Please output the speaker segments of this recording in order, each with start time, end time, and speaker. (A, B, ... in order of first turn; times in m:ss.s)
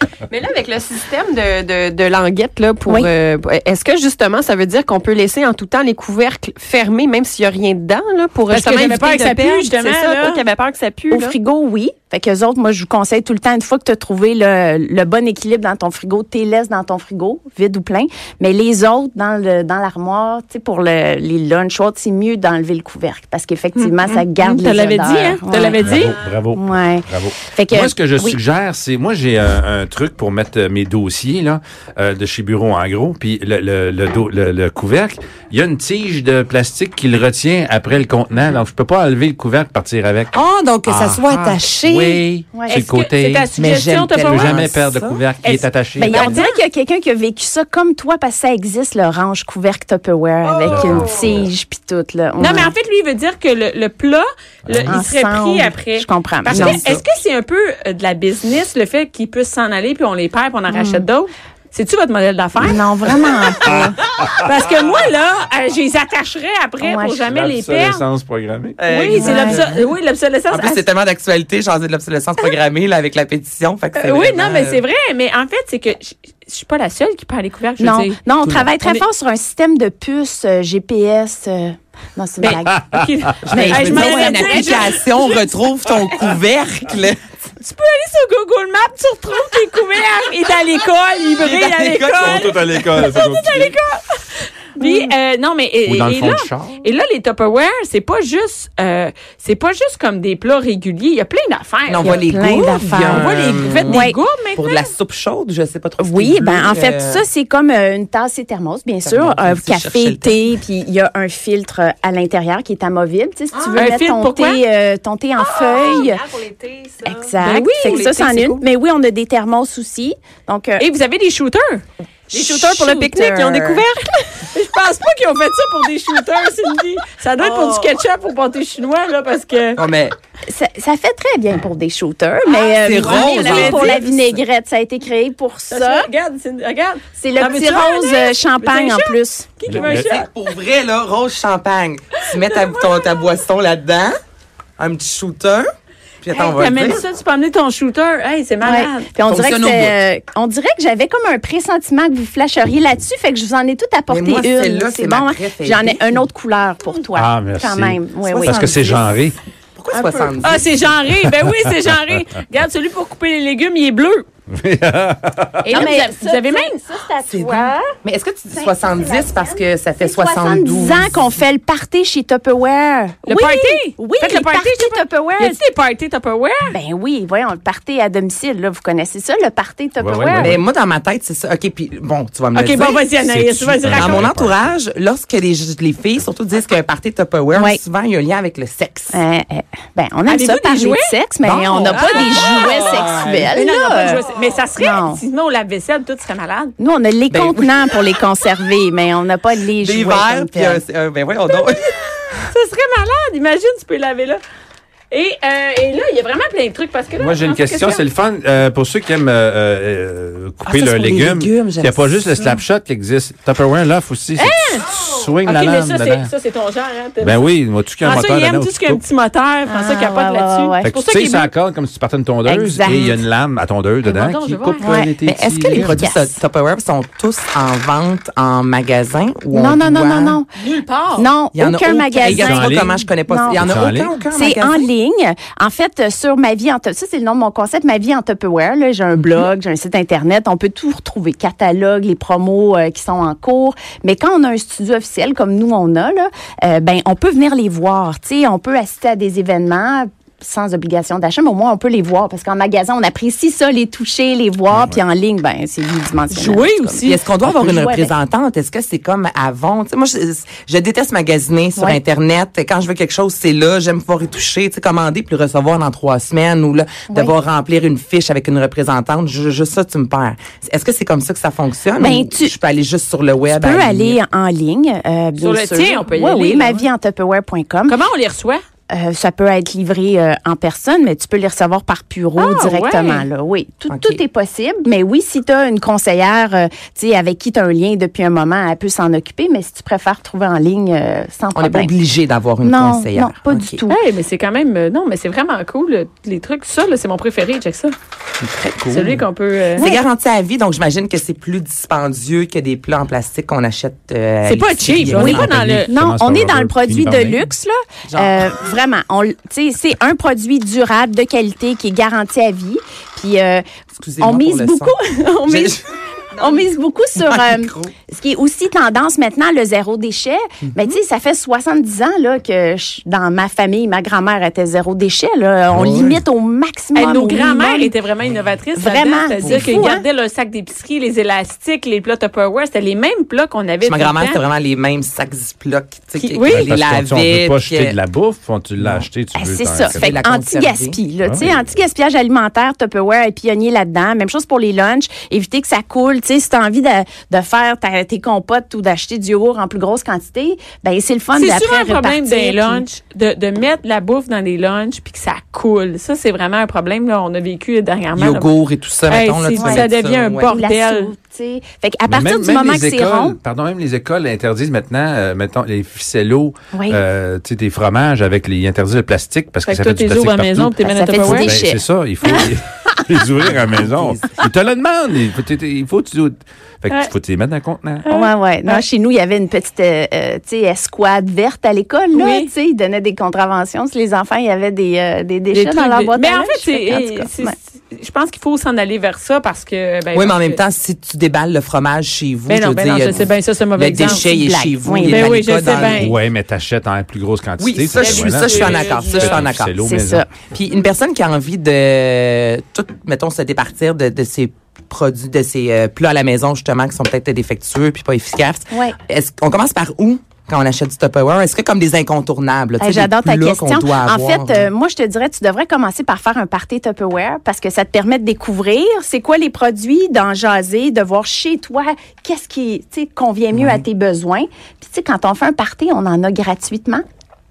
0:00.3-0:11.4 A
0:08.5-0:10.4 B
0:11.1-0:25.9 C
0:23.8-0:26.2 B
0:25.8-0:40.3 D
0:26.5-0:28.4 C
0:40.3-0:42.2 E
0:40.8-0:43.5 D
0:42.7-0:44.7 B
0:43.5-0:45.2 E
0:44.2-0:46.4 D
0:45.4-0:46.6 B
0:46.0-0:52.7 C
0:50.6-0:51.5 D
0:52.4-1:03.3 B
0:54.7-0:55.0 D
0:54.9-0:56.9 C
0:56.5-0:57.0 E
1:00.7-1:01.0 C
1:02.6-1:04.0 C
1:03.6-1:04.5 D
1:04.4-1:08.0 B
1:06.8-1:07.2 C
1:07.3-1:08.8 D
1:08.8-1:09.7 E
1:08.9-1:10.8 B
1:09.1-1:09.6 C
1:10.5-1:14.8 E
1:14.0-1:18.2 B
1:17.8-1:22.8 C
1:18.4-1:18.7 E
1:22.4-1:25.4 B
1:22.5-1:23.1 D
1:23.5-1:27.2 E
1:23.5-1:24.9 C
1:27.6-1:42.2 B
1:31.4-1:32.4 E
1:31.8-1:33.8 D
1:34.8-1:35.0 C
1:35.9-1:36.7 D
1:41.9-1:47.2 E
1:42.0-1:43.3 C
1:43.1-1:44.9 B
1:43.8-1:44.2 C
1:46.0-1:56.2 C
1:49.0-1:50.4 E
1:53.8-1:54.6 B
1:55.4-1:57.3 A
1:57.0-2:00.8 C
1:57.4-1:58.6 B
2:00.8-2:01.8 B
2:02.3-2:04.3 A
2:02.3-2:03.8 C
2:04.5-2:09.8 B
2:07.4-2:07.7 A
2:09.8-2:10.1 E
2:10.5-2:16.1 C
2:12.7-2:14.3 E
2:13.0-2:14.1 B
2:15.7-2:20.3 B
2:17.2-2:19.5 C
2:19.7-2:20.1 D
2:19.7-2:24.2 E
2:22.5-2:23.2 B
2:24.8-2:25.7 E
2:26.2-2:27.0 E
2:26.3-2:29.1 B
2:28.6-2:39.0 C
2:29.3-2:30.0 E
2:34.1-2:36.3 E
2:37.2-2:39.4 D
2:38.2-2:39.0 E
2:39.8-2:40.7 E
2:39.9-2:40.4 C
2:40.4-2:44.2 B
2:44.5-2:45.9 D
2:45.6-2:46.8 B
2:45.7-2:47.9 C
2:47.3-2:51.2 E
2:48.5-2:55.6 C
2:53.3-2:56.8 B
2:56.7-3:00.6 C
3:00.0-3:00.6 D
3:00.4-3:03.1 E
3:02.6-3:04.3 B
3:03.2-3:04.7 D
3:03.8-3:09.2 E
3:07.5-3:07.8 C
3:09.1-3:14.3 C
3:10.3-3:11.1 B
3:11.4-3:13.5 E
3:11.7-3:12.7 B
3:13.5-3:16.7 B
3:14.8-3:15.2 C
3:16.8-3:20.8 C
3:17.3-3:17.8 E
3:19.8-3:22.1 E
3:22.4-3:24.4 B
3:25.1-3:28.0 B
3:27.2-3:36.3 D
3:30.7-3:32.6 E
3:34.4-3:34.9 B
3:35.4-3:37.4 B
3:37.2-3:39.0 D
3:38.0-3:41.5 B
3:39.7-3:40.9 C
3:40.8-3:46.0 D
3:42.5-3:43.2 C
3:44.1-3:44.9 B
3:44.8-3:45.1 C
3:45.2-3:50.4 E
3:45.7-3:46.3 C
3:49.5-3:50.5 C
3:50.6-3:51.3 B
3:51.2-4:18.2 C
3:51.6-3:54.8 E
3:52.2-3:52.9 D
3:53.5-3:54.2 D
4:14.7-4:15.0 D
4:16.3-4:17.2 B
4:17.0-4:34.2 E
4:27.1-4:27.4 C
4:32.0-4:32.6 C
4:33.5-4:38.0 C
4:35.4-4:36.8 B
4:37.9-4:38.6 B
4:38.9-4:51.9 C
4:42.4-4:43.3 B
4:43.9-4:44.2 E
4:51.6-4:53.8 E
4:52.6-4:54.0 C
4:53.9-4:58.0 B
4:58.4-5:05.5 E
4:58.9-4:59.9 B
4:59.8-5:00.0 C
5:04.5-5:05.9 B
5:05.0-5:07.4 D
5:05.1-5:13.6 C
5:08.1-5:08.4 E
5:14.0-5:15.8 E
5:14.2-5:15.8 C
5:16.4-5:16.6 E
5:16.4-5:27.9 C
5:17.2-5:17.9 E
5:25.7-5:26.2 D
5:27.0-5:34.4 B
5:28.8-5:30.0 C
5:29.4-5:29.9 E
5:33.8-5:38.0 E
5:36.2-5:36.7 B
5:36.5-5:40.2 D
5:38.8-5:39.1 E
5:39.4-5:52.8 C
5:39.9-5:41.0 E
5:41.2-5:41.5 D
5:51.4-5:58.5 B
5:58.1-6:00.5 E
5:59.1-6:01.1 B
5:59.5-5:59.9 C
6:00.5-6:03.4 C
6:02.1-6:18.0 D
6:06.7-6:07.0 C
6:09.6-6:11.5 B
6:10.8-6:12.5 C
6:13.4-6:14.4 E
6:18.0-6:18.8 B
6:18.1-6:27.6 C
6:22.1-6:22.5 B
6:25.5-6:30.6 B
6:30.1-6:36.1 E
6:32.5-6:34.3 B
6:34.0-6:35.9 C
6:35.0-6:36.1 B
6:36.0-6:40.2 D
6:37.6-6:39.8 E
6:38.0-6:39.4 B
6:39.8-6:40.3 C
6:40.5-6:54.7 E
6:48.7-6:49.0 C
6:52.8-7:07.0 C
7:03.5-7:03.8 E